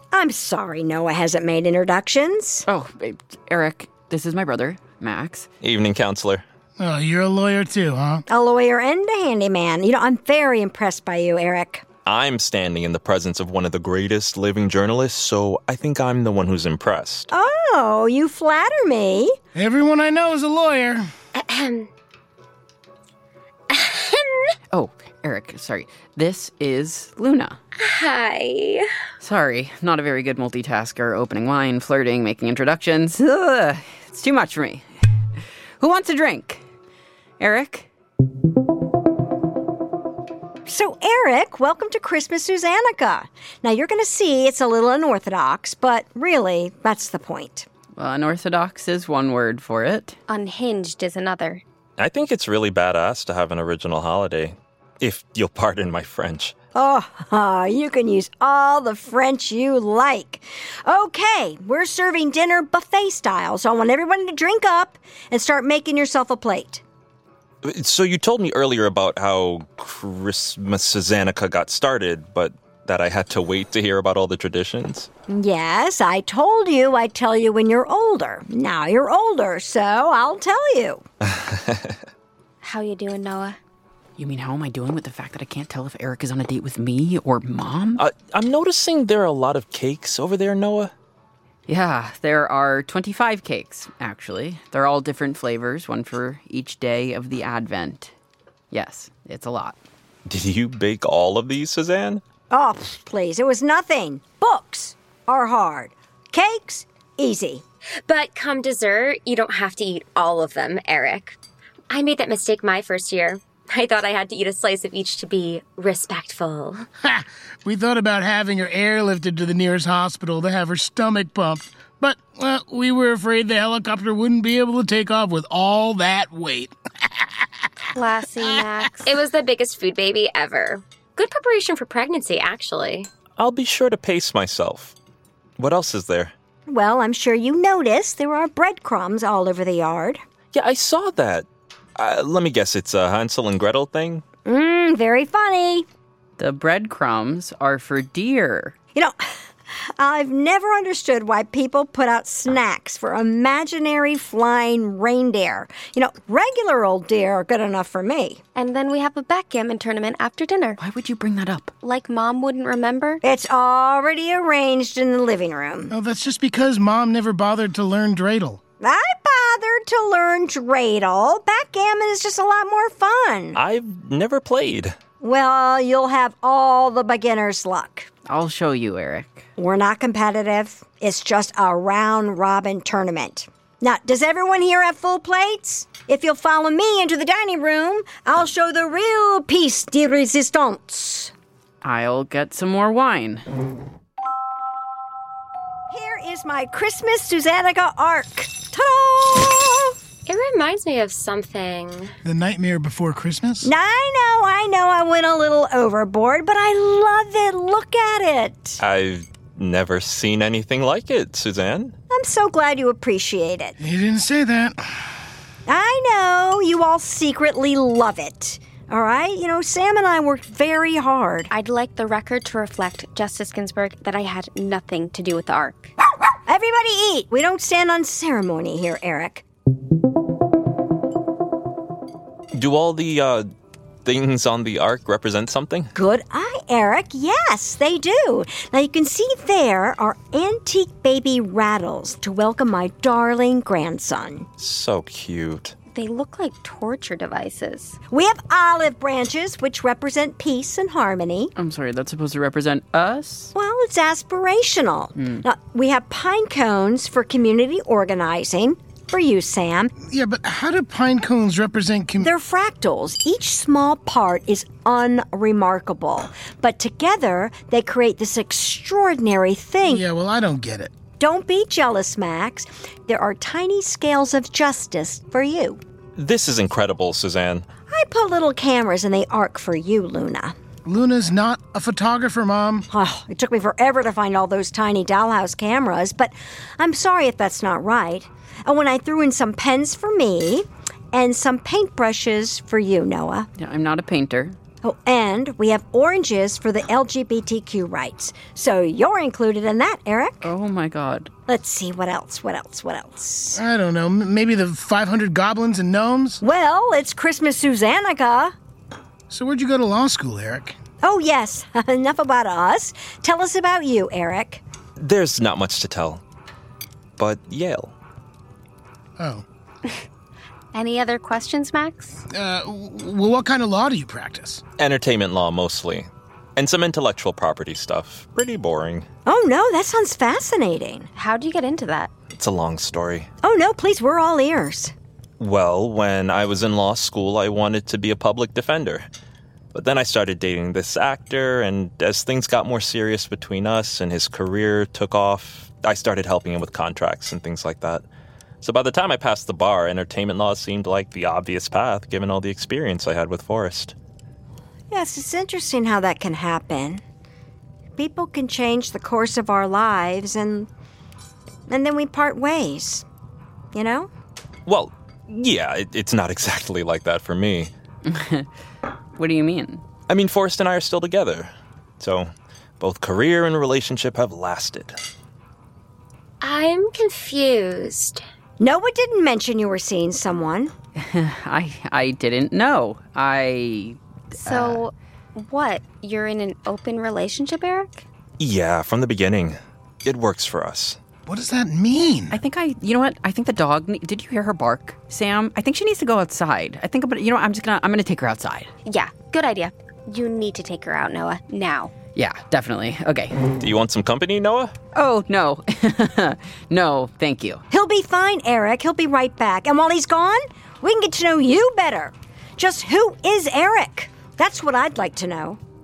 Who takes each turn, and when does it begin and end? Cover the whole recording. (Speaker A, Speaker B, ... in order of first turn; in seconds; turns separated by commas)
Speaker A: 0.1-2.6, Speaker B: 2.6-5.5, Speaker C: 5.6-6.4, Speaker D: 6.8-8.2, Speaker A: 8.3-11.8, Speaker C: 12.0-17.3, Speaker A: 17.3-19.4, Speaker D: 19.5-21.1, Speaker E: 21.3-21.9, Speaker E: 23.7-24.5, Speaker B: 24.7-27.6, Speaker E: 27.8-28.9, Speaker B: 29.2-34.9, Speaker B: 35.8-36.6, Speaker B: 37.4-37.9, Speaker A: 40.6-47.7, Speaker B: 48.0-50.1, Speaker F: 50.3-51.6, Speaker C: 52.0-56.5, Speaker A: 56.7-66.8, Speaker C: 67.6-75.1, Speaker A: 75.3-81.0, Speaker C: 81.3-82.0, Speaker F: 82.6-83.6, Speaker B: 84.2-88.0, Speaker C: 88.0-90.9, Speaker B: 91.7-98.1, Speaker B: 98.7-99.8, Speaker C: 100.2-102.2, Speaker A: 102.5-107.6, Speaker E: 108.0-111.4, Speaker E: 111.9-116.8, Speaker D: 117.0-127.5, Speaker F: 127.8-129.1, Speaker E: 129.0-133.1, Speaker C: 133.4-134.9, Speaker C: 135.6-136.3, Speaker A: 136.7-140.2, Speaker C: 140.5-144.2, Speaker A: 144.4-145.9, Speaker B: 146.4-148.7, Speaker A: 148.9-149.2, Speaker A: 150.0-158.4, Speaker F: 158.5-160.8, Speaker B: 160.8-161.7, Speaker F: 161.8-163.2, Speaker A: 163.2-165.9, Speaker D: 165.9-168.6, Speaker A: 168.8-173.6, Speaker C: 173.5-174.9, Speaker A: 175.2-178.1, Speaker B: 178.3-179.4, Speaker A: 179.6-191.3, Speaker B: 191.8-193.4, Speaker A: 195.9-199.9, Speaker E: 200.2-202.1, Speaker D: 202.2-203.7, Speaker A: 203.6-208.8, Speaker C: 208.8-211.9, Speaker A: 212.1-213.8, Speaker D: 213.8-215.0, Speaker A: 215.7-221.5, Speaker F: 221.5-225.9, Speaker A: 226.5-229.4, Speaker C: 232.5-233.5, Speaker C: 234.0-235.9, Speaker A: 235.9-244.5, Speaker C: 244.6-245.7, Speaker F: 245.9-248.0, Speaker A: 248.1-251.5, Speaker B: 251.6-253.5, Speaker A: 253.5-259.9, Speaker D: 260.0-262.3, Speaker A: 262.2-270.0, Speaker D: 269.8-270.9, Speaker A: 271.2-275.8, Speaker C: 276.1-277.6, Speaker A: 277.9-280.5, Speaker D: 280.8-282.9, Speaker A: 282.9-293.5, Speaker B: 293.6-294.6, Speaker A: 294.8-300.5, Speaker B: 300.4-301.3, Speaker A: 301.5-303.6, Speaker D: 303.5-306.4, Speaker A: 306.4-308.5, Speaker D: 309.3-310.8, Speaker A: 311.0-314.6, Speaker C: 315.0-316.2, Speaker C: 317.2-317.9, Speaker D: 319.2-319.4, Speaker F: 320.7-322.2, Speaker D: 322.3-324.6, Speaker C: 324.8-329.1, Speaker A: 329.2-331.1, Speaker F: 331.1-332.1, Speaker C: 332.3-333.3, Speaker A: 333.4-334.9, Speaker C: 335.4-339.1, Speaker C: 339.7-348.0, Speaker C: 348.6-353.9, Speaker A: 354.9-357.0, Speaker A: 358.0-360.7, Speaker A: 361.7-363.0, Speaker A: 363.7-364.1, Speaker C: 364.6-367.7, Speaker B: 368.0-368.5, Speaker B: 369.1-369.8, Speaker C: 370.1-375.0, Speaker E: 376.4-378.2, Speaker A: 378.6-380.7, Speaker B: 381.0-384.8, Speaker F: 384.4-388.0, Speaker C: 388.4-391.0, Speaker D: 391.2-392.4, Speaker B: 392.3-398.7, Speaker F: 398.9-401.9, Speaker B: 402.1-403.4, Speaker C: 403.6-404.7, Speaker B: 404.9-407.6, Speaker A: 407.7-415.6